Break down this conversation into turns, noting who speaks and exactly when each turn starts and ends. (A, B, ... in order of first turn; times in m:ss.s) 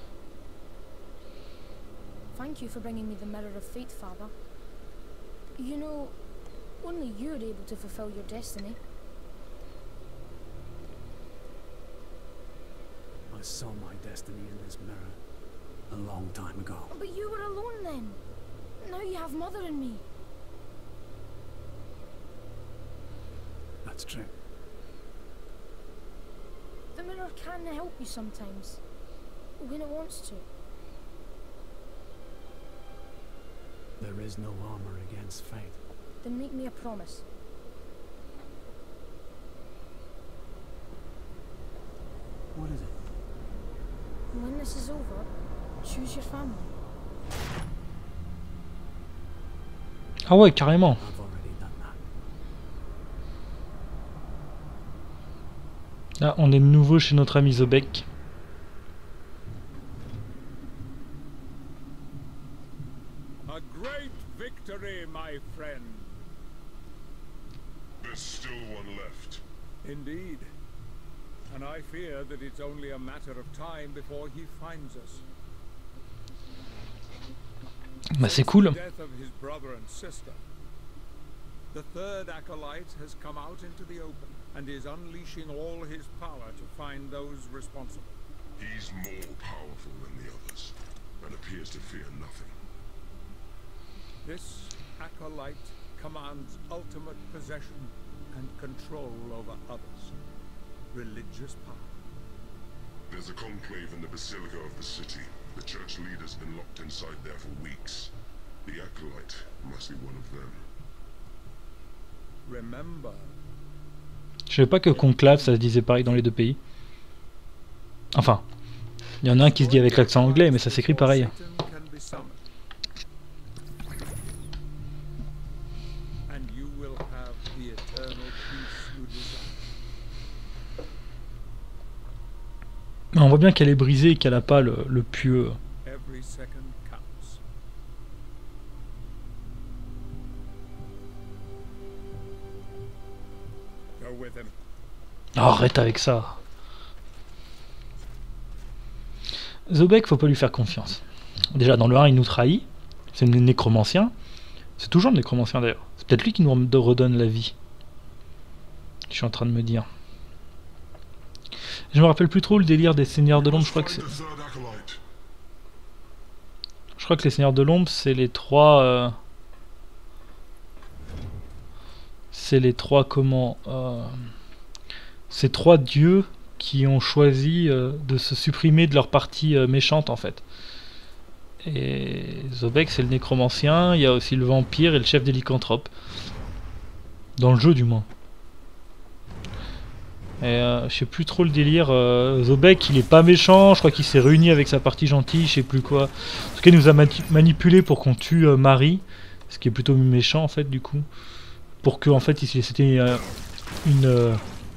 0:02.3-0:04.3 A
0:05.6-0:06.2 A
0:06.8-0:08.8 A
0:13.3-0:15.2 B
0:15.9-0:16.9 B
0:16.9-0:18.2 A
0:18.8-0:20.0 A
0:23.8-0:24.3 B
0:26.9-0:28.8 A
0:29.6-0:30.5 A
0:34.0-0:35.8 B
0:36.2-0:37.2 A
0:42.5-0:42.9 B
0:44.3-0:45.3 A
0:45.8-0:46.7 A
0:50.3-0:51.0 C
0:51.0-0:52.0 B
0:56.2-0:58.0 C
1:03.4-1:06.1 D
1:08.0-1:09.4 E
1:09.8-1:10.5 D
1:11.5-1:15.2 D
1:18.2-1:18.8 C
1:18.2-1:20.4 D
1:21.7-1:28.2 D
1:28.6-1:32.6 E
1:34.2-1:40.1 D
1:40.9-1:41.9 D
1:43.1-1:48.1 E
1:48.6-1:50.6 E
1:52.4-1:53.3 D
1:54.5-1:56.6 C
1:58.1-1:58.4 C
1:59.2-2:01.3 C
1:59.2-2:02.4 D
2:06.3-2:09.6 D
2:13.1-2:15.6 C
2:15.8-2:17.4 D
2:24.0-2:24.5 D
2:25.4-2:26.4 C
2:29.7-2:31.0 C
2:31.5-2:34.1 C
2:34.8-2:37.5 C
2:39.1-2:39.9 C
2:41.9-2:44.1 C
2:43.3-2:45.0 E
2:47.0-2:49.2 C
2:52.3-2:54.2 C
2:55.3-3:00.4 C
3:01.6-3:05.9 C
3:07.4-3:08.1 C
3:10.4-3:21.0 C
3:21.8-3:23.2 C
3:23.8-3:24.4 C